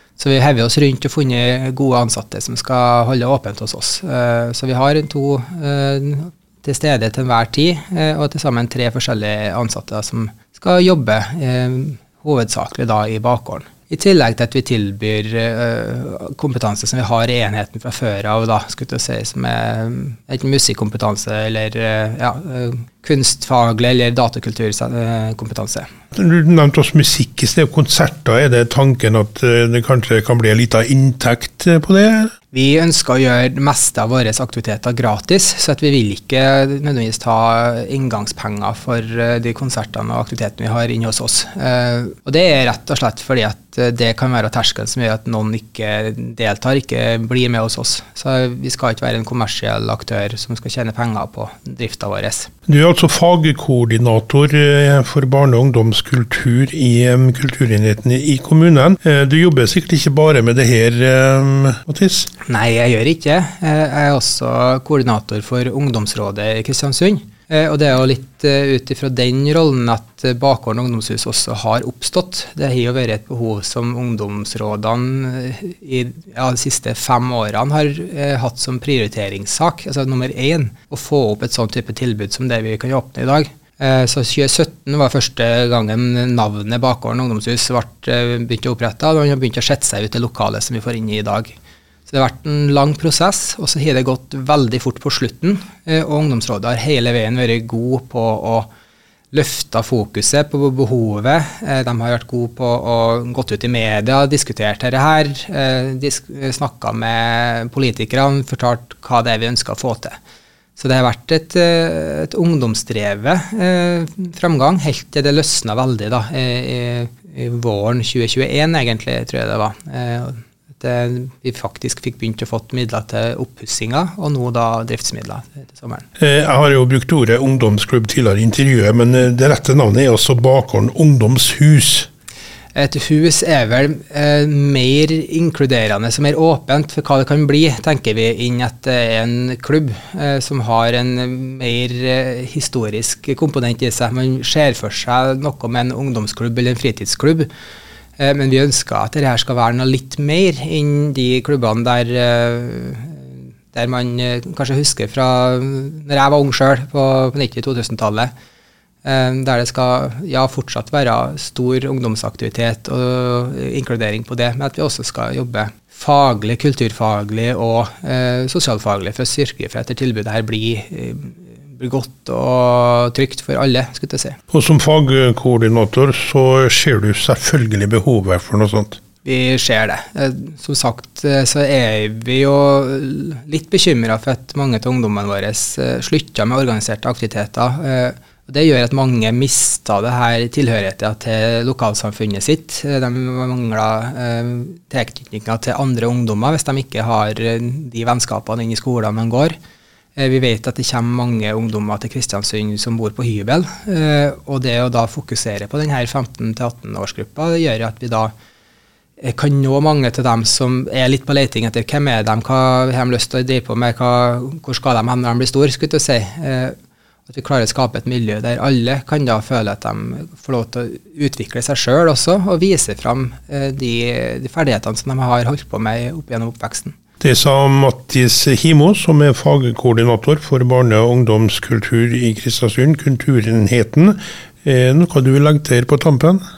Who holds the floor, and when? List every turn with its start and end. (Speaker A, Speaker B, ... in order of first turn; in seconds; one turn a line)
Speaker A: 0.2-25.9
Speaker B: 26.1-32.3
Speaker A: 32.5-52.5
Speaker B: 52.7-62.3
Speaker A: 62.4-98.7
Speaker A: 99.3-110.2
Speaker A: 110.8-126.1
Speaker B: 126.2-132.1
Speaker A: 132.8-147.5
Speaker A: 148.2-158.3
Speaker A: 159.0-174.4
Speaker B: 174.5-179.0
Speaker A: 179.2-199.6
Speaker A: 200.2-208.3
Speaker A: 209.2-216.8
Speaker A: 217.3-226.9
Speaker B: 227.2-236.4